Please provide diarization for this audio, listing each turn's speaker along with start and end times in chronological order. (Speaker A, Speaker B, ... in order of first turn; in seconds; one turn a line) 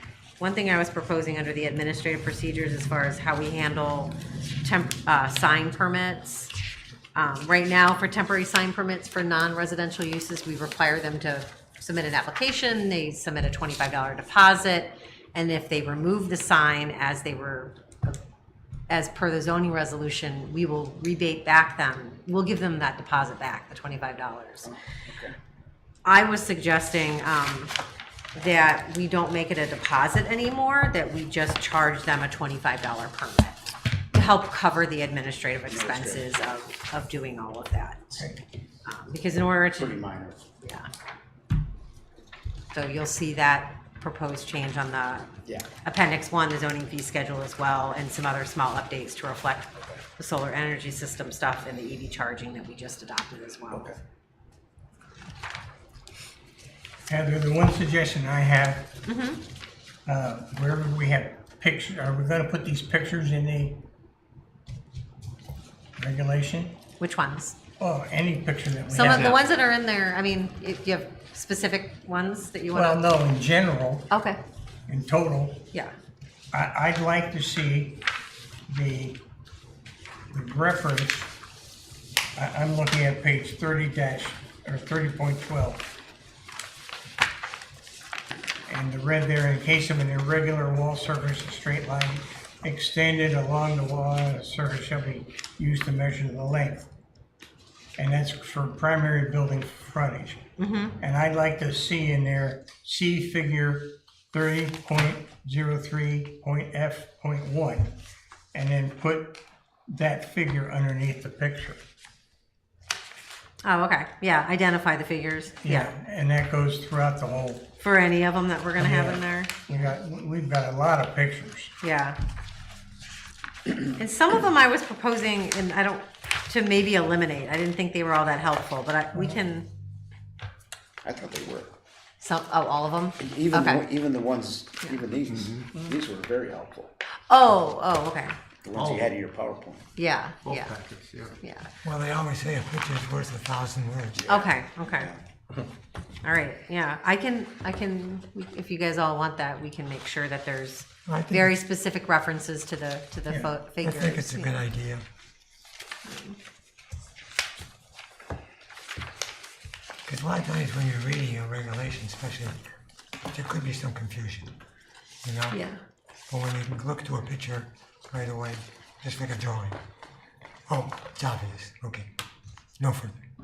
Speaker A: 0.4-6.5
Speaker A: 7.1-18.2
Speaker A: 18.9-24.7
Speaker B: 25.0-25.3
Speaker A: 26.0-27.7
Speaker A: 28.3-38.3
Speaker C: 35.7-36.4
Speaker A: 38.8-40.0
Speaker C: 39.8-40.4
Speaker A: 40.6-40.9
Speaker A: 42.7-45.3
Speaker A: 45.8-54.0
Speaker B: 57.0-58.9
Speaker A: 59.0-59.4
Speaker B: 60.0-63.8
Speaker B: 66.0-66.7
Speaker A: 67.0-67.6
Speaker B: 67.8-69.4
Speaker A: 68.9-73.0
Speaker B: 72.7-74.0
Speaker A: 74.1-74.4
Speaker B: 74.9-75.6
Speaker B: 76.5-78.0
Speaker B: 78.7-79.2
Speaker B: 80.3-81.3
Speaker B: 82.3-85.9
Speaker B: 88.7-96.9
Speaker B: 98.0-100.4
Speaker A: 100.6-101.0
Speaker B: 101.0-107.9
Speaker B: 108.5-109.4
Speaker B: 109.9-111.8
Speaker A: 113.6-115.9
Speaker B: 115.7-117.7
Speaker A: 117.8-119.9
Speaker C: 118.8-119.1
Speaker B: 119.7-121.7
Speaker A: 121.8-122.2
Speaker A: 123.8-129.7
Speaker C: 131.0-131.7
Speaker A: 132.2-133.9
Speaker C: 133.2-136.9
Speaker A: 137.3-138.3
Speaker C: 138.6-139.8
Speaker A: 139.9-140.7
Speaker C: 140.4-141.3
Speaker A: 141.4-141.7
Speaker D: 141.8-144.3
Speaker C: 144.2-144.5
Speaker A: 144.3-145.1
Speaker A: 146.2-154.6
Speaker D: 151.1-151.6
Speaker D: 153.8-155.0
Speaker A: 156.0-156.4
Speaker D: 160.1-162.6
Speaker D: 163.3-164.5
Speaker D: 165.2-165.6
Speaker A: 165.5-165.8
Speaker D: 166.3-169.8
Speaker D: 170.7-172.1
Speaker D: 172.8-173.2